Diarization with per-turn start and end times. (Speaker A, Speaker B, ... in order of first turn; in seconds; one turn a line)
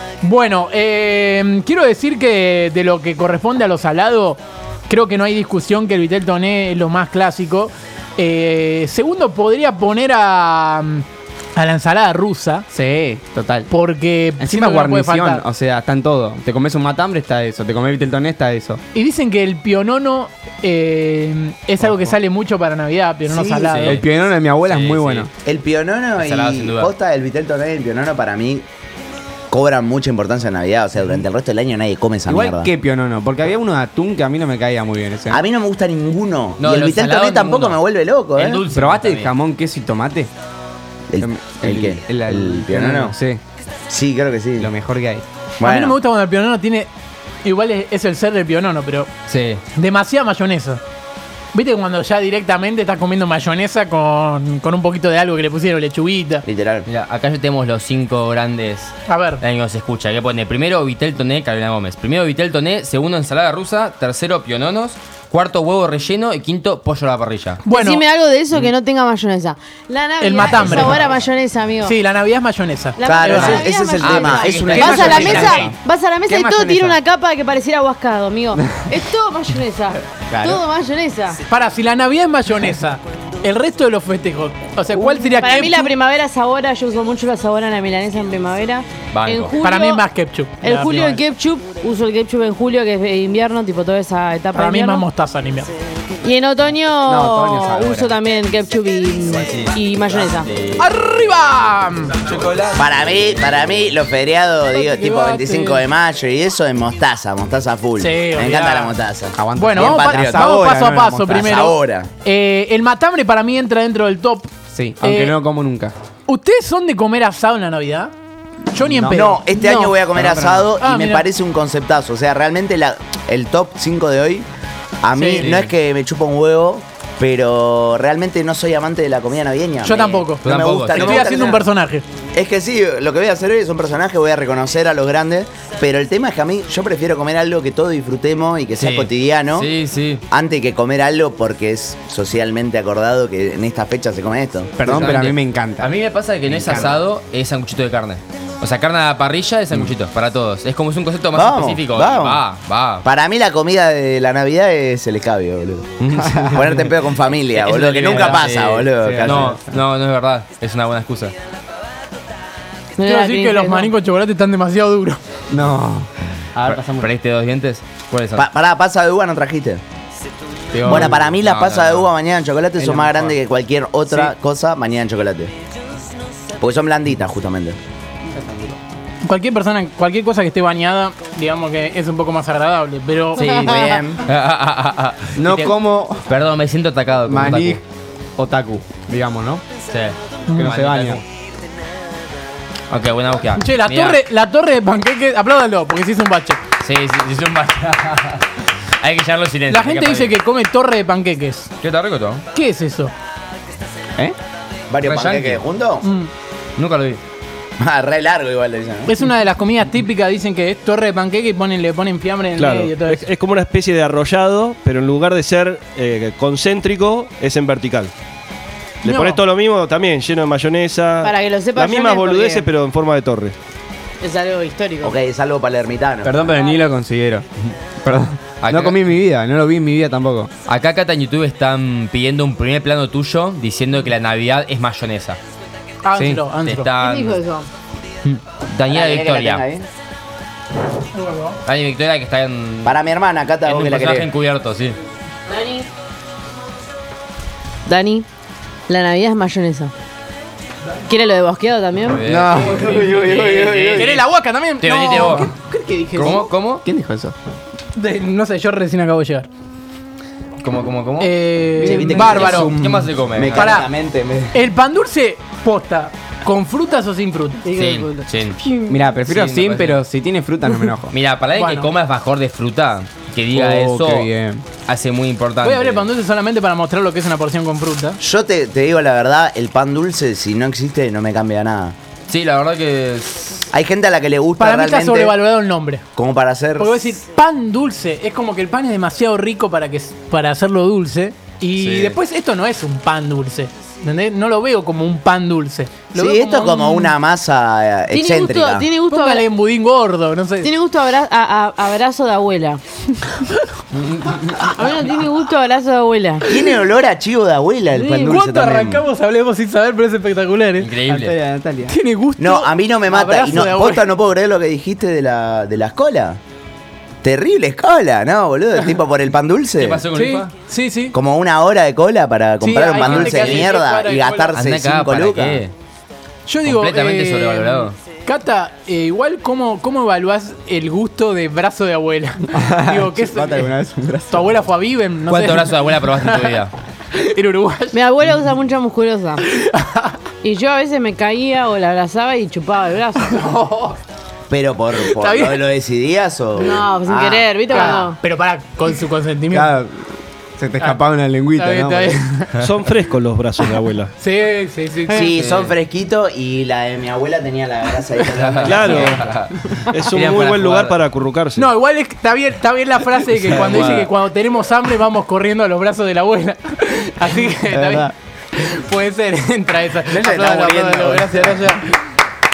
Speaker A: 0.2-12.7
Speaker B: 12.7-13.7
Speaker A: 13.7-15.4
Speaker B: 14.4-18.8
Speaker A: 18.9-24.0
Speaker B: 21.8-22.1
Speaker C: 23.3-23.7
Speaker D: 23.7-24.1
Speaker B: 23.8-25.3
Speaker D: 24.6-25.3
Speaker C: 25.4-28.6
Speaker D: 26.2-26.9
Speaker C: 29.5-32.7
Speaker B: 32.3-35.4
Speaker C: 35.3-38.6
Speaker D: 36.6-37.8
Speaker D: 38.3-39.3
Speaker B: 38.7-40.3
Speaker C: 41.1-43.1
Speaker B: 41.2-43.4
Speaker C: 43.9-44.7
Speaker B: 44.6-45.2
Speaker C: 45.6-46.0
Speaker A: 45.6-46.9
Speaker A: 47.4-49.1
Speaker D: 49.3-49.6
Speaker A: 49.7-50.8
Speaker A: 51.5-56.4
Speaker C: 56.4-56.9
Speaker D: 56.8-67.6
Speaker A: 59.1-59.4
Speaker A: 67.6-68.0
Speaker E: 67.7-71.9
Speaker A: 70.2-71.0
Speaker A: 71.8-73.6
Speaker E: 73.0-81.4
Speaker C: 73.0-75.7
Speaker D: 74.0-75.7
Speaker A: 74.7-75.7
Speaker A: 76.3-76.9
Speaker B: 80.3-80.6
Speaker A: 81.5-86.0
Speaker E: 85.0-90.0
Speaker D: 89.1-89.5
Speaker A: 89.6-91.2
Speaker E: 90.6-95.0
Speaker A: 94.5-95.7
Speaker E: 96.2-100.5
Speaker B: 97.0-98.1
Speaker D: 99.4-100.8
Speaker A: 100.8-102.2
Speaker D: 102.2-103.9
Speaker C: 102.7-110.5
Speaker A: 104.7-105.8
Speaker A: 108.0-109.0
Speaker B: 109.3-111.5
Speaker A: 109.6-114.5
Speaker C: 111.3-112.1
Speaker B: 114.7-115.9
Speaker A: 115.0-115.4
Speaker A: 116.3-118.1
Speaker A: 118.7-119.4
Speaker B: 118.8-119.3
Speaker C: 119.1-124.5
Speaker E: 119.5-120.0
Speaker B: 120.1-120.7
Speaker A: 120.8-121.3
Speaker C: 125.0-131.6
Speaker A: 125.1-125.5
Speaker D: 125.4-125.7
Speaker A: 129.8-132.0
Speaker D: 129.9-131.3
Speaker C: 132.3-139.7
Speaker D: 138.8-140.2
Speaker C: 140.3-144.9
Speaker B: 144.8-145.9
Speaker D: 144.8-153.1
Speaker B: 146.5-147.0
Speaker C: 151.3-152.4
Speaker C: 153.0-159.6
Speaker B: 156.1-156.9
Speaker D: 157.5-161.3
Speaker B: 158.1-158.4
Speaker B: 159.0-159.8
Speaker E: 163.0-163.9
Speaker A: 163.0-165.2
Speaker B: 165.5-167.1
Speaker D: 166.6-168.5
Speaker C: 168.3-169.8
Speaker B: 170.7-171.3
Speaker C: 170.8-175.5
Speaker D: 170.8-172.1
Speaker B: 172.8-173.3
Speaker C: 176.6-177.8
Speaker B: 178.2-178.8
Speaker A: 179.2-183.8
Speaker E: 183.4-184.0
Speaker C: 183.6-184.2
Speaker D: 184.2-187.8
Speaker B: 185.3-186.3
Speaker B: 187.3-187.8
Speaker B: 188.4-189.6
Speaker D: 189.9-191.2
Speaker A: 190.5-190.8
Speaker B: 190.5-191.2
Speaker D: 192.9-194.2
Speaker A: 193.6-196.6
Speaker D: 196.8-200.4
Speaker A: 199.7-201.7
Speaker D: 201.8-202.4
Speaker A: 202.5-203.1
Speaker C: 204.9-206.0
Speaker D: 205.0-205.6
Speaker A: 206.0-206.3
Speaker D: 206.8-207.2
Speaker C: 207.8-209.1
Speaker A: 209.1-213.2
Speaker F: 212.5-218.1
Speaker F: 219.0-223.5
Speaker A: 219.0-219.4
Speaker E: 221.2-222.7
Speaker E: 224.2-225.2
Speaker C: 225.0-226.4
Speaker B: 226.2-227.4
Speaker B: 228.0-230.5
Speaker D: 228.6-229.0
Speaker D: 230.7-235.4
Speaker A: 236.0-236.9
Speaker B: 236.1-236.4
Speaker D: 236.6-237.4
Speaker E: 237.0-237.7
Speaker D: 238.3-239.6
Speaker C: 238.9-239.9
Speaker A: 241.1-241.6
Speaker D: 241.6-243.0
Speaker C: 242.8-244.3
Speaker D: 243.6-245.0
Speaker E: 245.5-245.9
Speaker E: 247.8-248.2
Speaker E: 248.9-249.9
Speaker E: 251.1-252.2
Speaker D: 252.1-254.2
Speaker B: 252.3-254.2
Speaker A: 253.9-256.4
Speaker D: 254.8-255.5
Speaker B: 255.2-255.5
Speaker B: 256.1-257.4
Speaker D: 256.2-256.8
Speaker A: 257.9-259.5
Speaker D: 260.6-261.3
Speaker A: 261.2-262.7
Speaker C: 261.8-264.6
Speaker B: 261.8-262.6
Speaker D: 262.2-263.8
Speaker A: 263.5-263.9
Speaker A: 264.5-267.7
Speaker E: 267.6-269.0
Speaker D: 267.7-268.6
Speaker B: 268.9-271.1
Speaker D: 269.2-270.0
Speaker D: 271.1-274.3
Speaker A: 271.5-271.9
Speaker B: 273.5-274.6
Speaker D: 274.9-276.0
Speaker A: 275.6-278.2
Speaker C: 278.2-281.9
Speaker D: 282.3-283.7
Speaker C: 283.7-285.4
Speaker A: 284.6-286.0
Speaker C: 286.1-286.9
Speaker A: 286.8-297.1
Speaker D: 291.8-292.2
Speaker C: 296.1-298.9
Speaker E: 298.1-299.4
Speaker A: 299.1-300.7
Speaker E: 300.6-302.8
Speaker A: 303.2-303.7
Speaker D: 303.9-304.9
Speaker E: 304.6-306.5
Speaker C: 306.4-309.0
Speaker E: 307.9-308.3
Speaker A: 308.0-310.9
Speaker D: 310.8-311.3
Speaker B: 311.1-312.0
Speaker A: 311.9-314.1
Speaker C: 312.4-316.4
Speaker C: 317.2-320.0
Speaker D: 319.8-320.5
Speaker A: 320.1-321.1
Speaker C: 321.1-325.6
Speaker A: 322.6-324.6
Speaker D: 323.0-323.7
Speaker D: 324.5-325.7
Speaker A: 326.5-333.7
Speaker D: 326.6-327.9
Speaker B: 332.5-334.5
Speaker A: 334.3-336.6
Speaker D: 335.3-336.7
Speaker A: 337.1-338.0
Speaker E: 337.9-339.4
Speaker A: 339.4-340.2
Speaker E: 340.4-343.4
Speaker A: 343.3-344.0
Speaker C: 344.5-348.0
Speaker A: 345.0-345.6
Speaker E: 346.6-348.2
Speaker A: 347.7-349.7
Speaker B: 349.5-352.2
Speaker A: 351.6-352.5
Speaker F: 352.6-354.1
Speaker A: 354.2-355.3
Speaker C: 355.1-359.2
Speaker D: 355.3-355.7
Speaker D: 358.3-361.0
Speaker F: 358.6-359.3
Speaker F: 359.9-361.7
Speaker A: 361.6-371.9
Speaker D: 363.3-364.1
Speaker B: 367.7-368.1
Speaker C: 370.1-371.6